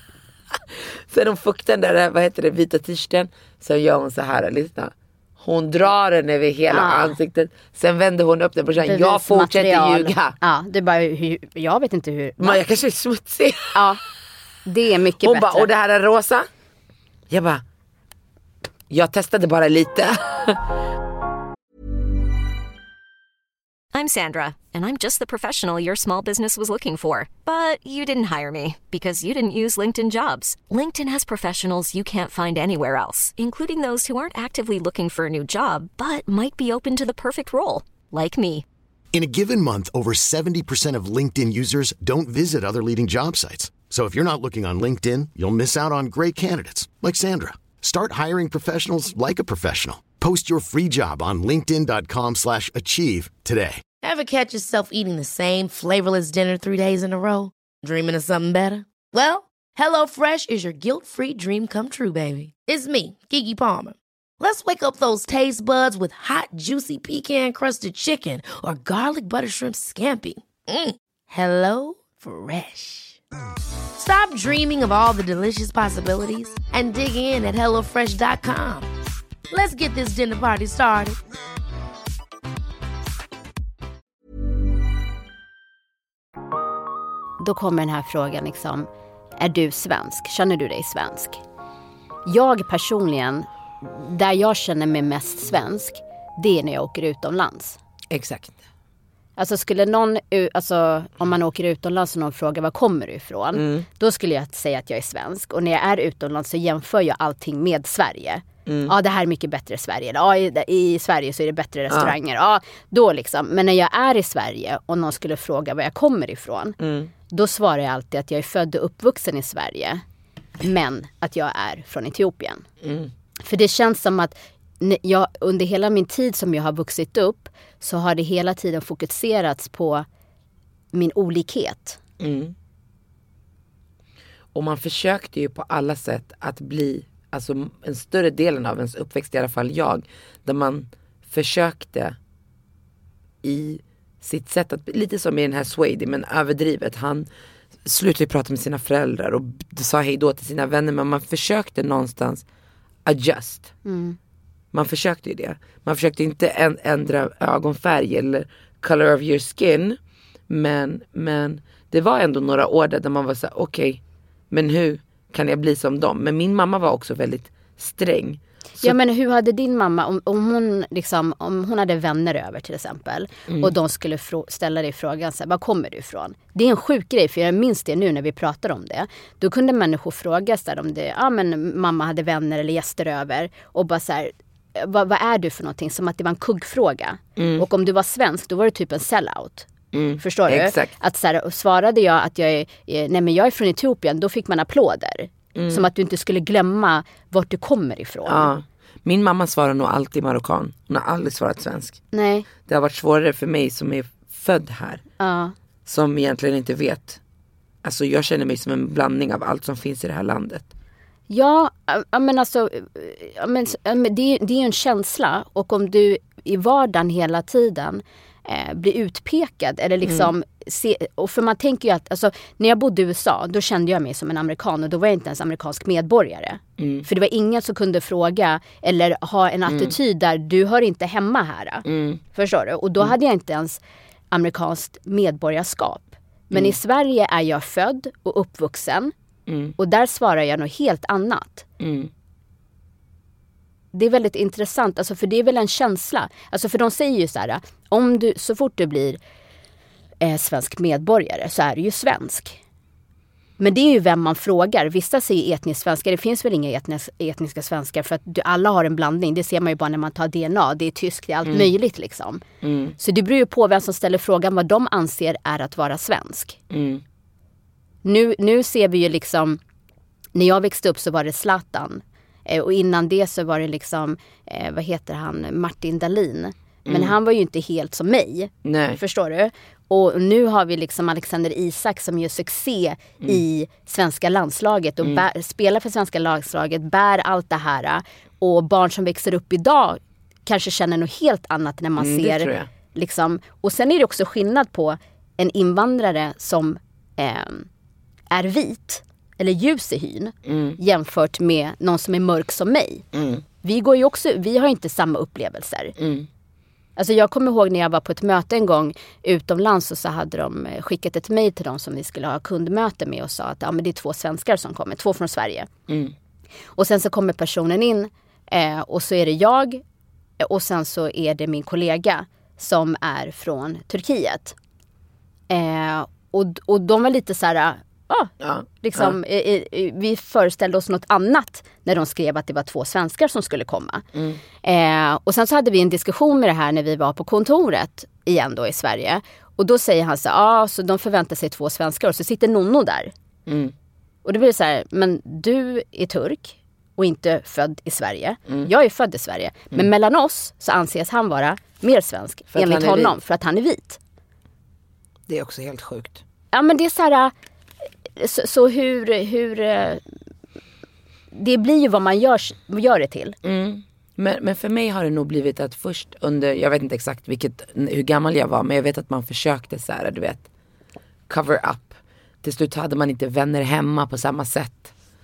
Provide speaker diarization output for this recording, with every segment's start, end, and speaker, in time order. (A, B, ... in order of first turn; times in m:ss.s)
0:01.1-0:10.4 A
0:06.7-0:07.1 B
0:08.8-0:12.6 B
0:12.4-0:13.9 A
0:13.7-0:14.0 B
0:14.7-0:15.7 B
0:15.2-0:16.5 A
0:17.3-0:17.6 A
0:18.9-0:20.6 A
0:23.9-0:38.7 C
0:39.1-0:53.8 D
0:54.0-1:13.2 E
1:14.0-1:18.9 E
1:19.5-1:21.2 E
1:27.4-1:28.9 B
1:29.4-1:31.4 B
1:32.3-1:37.8 B
1:38.1-1:38.6 A
1:39.4-1:56.8 B
1:43.6-1:43.9 A
1:48.7-1:48.9 A
1:56.8-1:57.1 A
1:57.3-2:00.0 B
2:00.6-2:02.6 B
2:02.8-2:03.1 A
2:03.4-2:10.1 B
2:10.9-2:12.0 B
2:12.2-2:12.5 A
2:14.5-2:22.2 A
2:23.4-2:27.3 A
2:27.8-2:32.4 A
2:33.0-2:33.7 A
2:33.8-2:34.2 B
2:34.7-2:40.0 A
2:40.5-2:49.0 A
2:48.8-3:09.7 B
3:07.4-3:07.6 A
3:09.9-3:10.9 A
3:10.2-3:18.5 B
3:15.6-3:15.9 A
3:18.3-3:22.0 A
3:22.1-3:22.5 B
3:22.7-3:25.0 A
3:25.2-3:25.5 B
3:25.9-3:27.2 A
3:27.8-3:30.7 A
3:31.3-3:53.8 B
3:40.0-3:40.3 A
3:46.8-3:47.1 A
3:49.7-3:49.9 A
3:51.9-3:52.2 A
3:54.3-3:59.1 B
3:56.5-3:56.8 A
3:59.5-3:59.8 A
3:59.8-4:01.7 B
4:01.8-4:02.1 A
4:03.9-4:09.2 B
4:10.2-4:12.6 B
4:13.6-4:22.4 B
4:22.6-4:23.0 A
4:23.0-4:26.6 B
4:26.7-4:27.0 A
4:28.0-4:29.6 B
4:30.4-4:57.7 B
4:36.9-4:37.1 A
4:38.6-4:39.0 A
4:52.0-4:52.7 A
4:58.3-5:03.0 B
5:00.5-5:00.8 A
5:03.1-5:03.4 A
5:03.6-5:05.9 B
5:06.0-5:06.3 A
5:07.0-5:15.7 B
5:15.9-5:16.1 A
5:16.8-5:19.8 B
5:20.4-5:24.6 B
5:25.5-5:34.0 B
5:28.4-5:29.2 A
5:34.2-5:34.4 A
5:34.6-5:43.1 B
5:43.5-5:43.7 A
5:44.2-5:54.0 B
5:52.5-5:53.2 A
5:55.3-5:56.2 A
5:56.5-5:57.3 B
5:58.2-6:00.0 B
6:01.3-6:03.4 B
6:03.4-6:10.4 A
6:11.3-6:14.9 A